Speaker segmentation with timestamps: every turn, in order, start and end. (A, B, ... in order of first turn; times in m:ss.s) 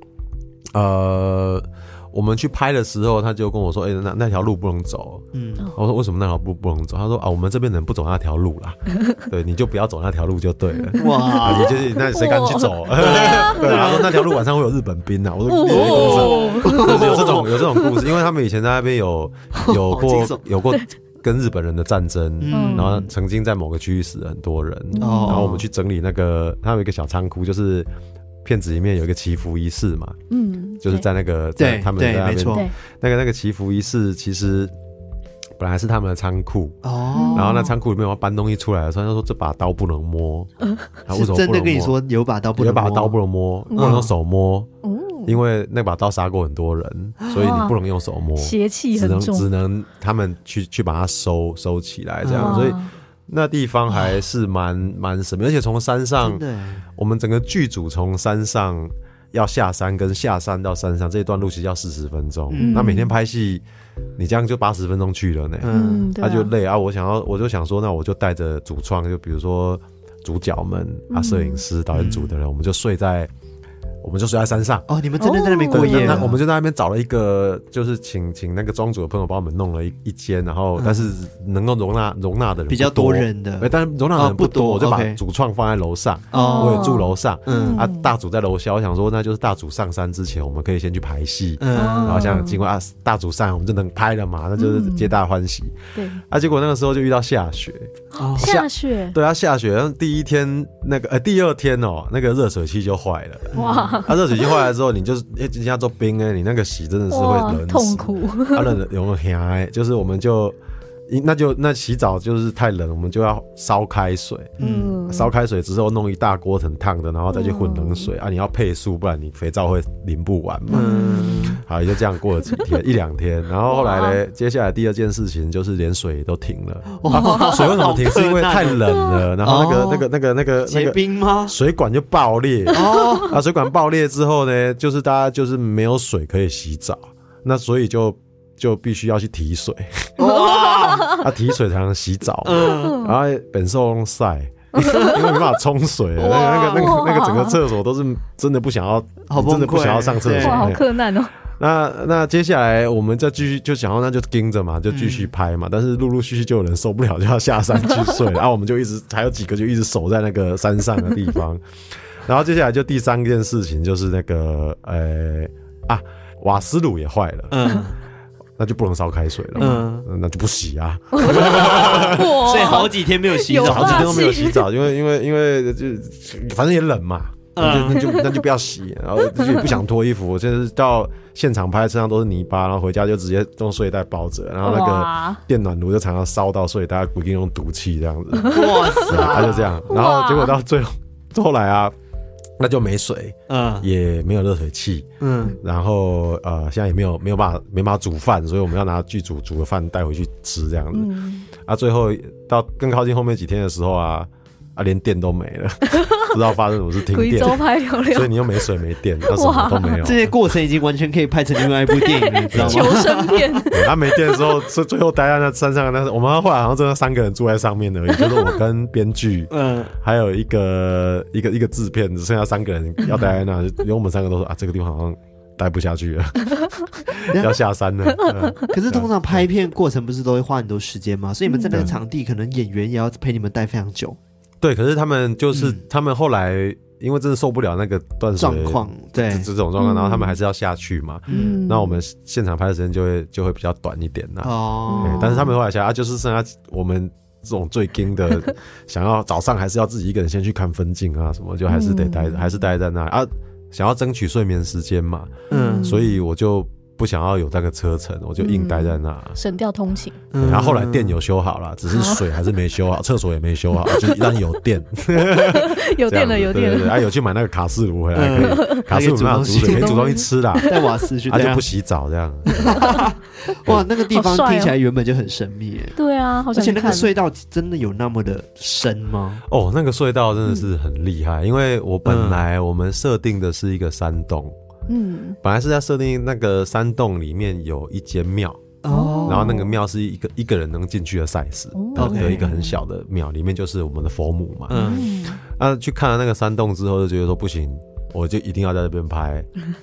0:00.7-0:27.9 A
0:05.3-0:05.7 B
0:10.8-0:13.9 C
0:11.0-0:11.7 B
0:13.0-0:14.3 B
0:15.5-0:18.0 C
0:15.7-0:17.5 B
0:19.5-0:20.4 B
0:22.4-0:23.1 B
0:22.5-0:23.0 C
0:24.9-0:25.5 C
0:25.0-0:25.6 B
0:28.4-0:30.2 A
0:30.3-0:31.0 C
0:30.8-0:34.7 A
0:31.6-0:32.7 B
0:35.6-0:36.8 A
0:36.8-0:37.7 B
0:37.1-0:37.7 C
0:37.3-0:40.5 A
0:41.0-0:42.0 A
0:41.1-0:43.2 B
0:42.6-0:44.7 A
0:43.7-0:44.1 C
0:43.8-0:44.1 B
0:44.8-0:45.4 C
0:45.3-0:56.4 A
0:47.3-0:47.8 C
0:48.4-0:49.5 C
0:52.2-0:52.7 B
0:52.4-0:52.9 C
0:53.9-0:54.2 B
0:56.2-0:56.9 B
0:57.0-1:03.6 A
1:02.5-1:02.9 B
1:02.6-1:03.1 C
1:04.2-1:13.3 A
1:05.6-1:06.1 B
1:05.7-1:06.5 C
1:11.1-1:11.6 C
1:11.9-1:12.3 B
1:14.0-1:14.9 A
1:14.9-1:16.4 B
1:15.2-1:16.4 C
1:15.7-1:50.6 A
1:20.8-1:21.1 B
1:22.7-1:25.2 B
1:26.3-1:27.8 B
1:26.3-1:28.1 C
1:31.6-1:32.3 B
1:31.7-1:32.6 C
1:34.6-1:35.2 C
1:36.0-1:36.2 C
1:38.2-1:38.5 B
1:38.4-1:39.2 C
1:43.5-1:44.0 B
1:43.6-1:44.2 C
1:47.1-1:48.8 C
1:51.1-2:00.9 A
1:54.6-1:55.0 B
1:54.6-1:55.3 C
1:57.3-1:58.1 C
2:00.7-2:01.6 C
2:00.7-2:01.6 B
2:01.5-2:20.1 A
2:03.7-2:04.2 C
2:07.0-2:08.8 B
2:07.1-2:07.6 C
2:09.4-2:10.1 B
2:10.6-2:11.6 B
2:12.7-2:13.4 B
2:20.2-2:21.2 B
2:20.2-2:21.2 C
2:21.1-2:30.8 A
2:22.4-2:23.0 B
2:22.8-2:23.1 C
2:24.8-2:25.5 C
2:24.8-2:25.2 B
2:26.2-2:27.6 C
2:29.3-2:30.7 B
2:30.3-2:31.3 C
2:31.6-2:47.6 A
2:34.9-2:35.3 B
2:47.5-2:48.0 B
2:48.6-2:52.9 A
2:49.6-2:49.8 C
2:49.6-2:50.1 B
2:51.1-2:54.6 C
2:51.3-2:54.2 B
2:53.6-3:12.0 A
2:57.6-2:58.0 B
2:57.9-2:58.3 C
2:59.4-2:59.8 C
3:04.6-3:05.4 C
3:08.4-3:10.6 C
3:08.5-3:09.9 B
3:12.6-3:30.3 A
3:13.5-3:13.9 B
3:15.2-3:15.6 B
3:20.9-3:21.5 C
3:25.9-3:26.4 C
3:27.1-3:28.7 C
3:29.3-3:30.1 C
3:30.0-3:33.6 B
3:31.9-3:34.5 C
3:32.5-3:33.0 A
3:33.7-3:49.4 A
3:38.2-3:38.6 C
3:39.5-3:40.0 B
3:43.1-3:43.4 B
3:47.3-3:47.6 B
3:48.2-3:48.5 C
3:48.7-3:54.2 B
3:51.5-3:51.9 C
3:54.6-4:19.4 A
3:55.5-3:55.8 B
3:58.4-3:59.5 B
3:59.8-4:00.4 C
4:01.3-4:01.6 B
4:01.3-4:02.0 C
4:04.4-4:05.4 B
4:04.9-4:05.5 C
4:11.7-4:12.5 C
4:15.5-4:15.9 B
4:15.5-4:16.2 C
4:18.4-4:20.2 C
4:20.3-4:21.2 B
4:20.4-4:30.7 A
4:21.9-4:22.4 C
4:23.8-4:24.4 C
4:25.3-4:27.0 C
4:28.1-4:30.0 B
4:28.3-4:28.9 C
4:29.6-4:30.9 C
4:30.7-4:31.6 B
4:31.3-4:32.9 A
4:32.5-4:36.0 B
4:32.6-4:33.0 C
4:34.1-4:34.8 C
4:36.0-4:37.1 C
4:36.5-4:39.4 B
4:39.5-4:44.6 A
4:42.0-4:42.4 B
4:44.9-4:45.4 C
4:45.4-4:48.7 A
4:48.8-4:49.6 B
4:48.9-4:49.7 C
4:49.2-4:59.5 A
4:51.8-4:52.8 C
4:52.0-4:52.4 B
4:54.7-4:55.1 B
4:54.7-4:55.4 C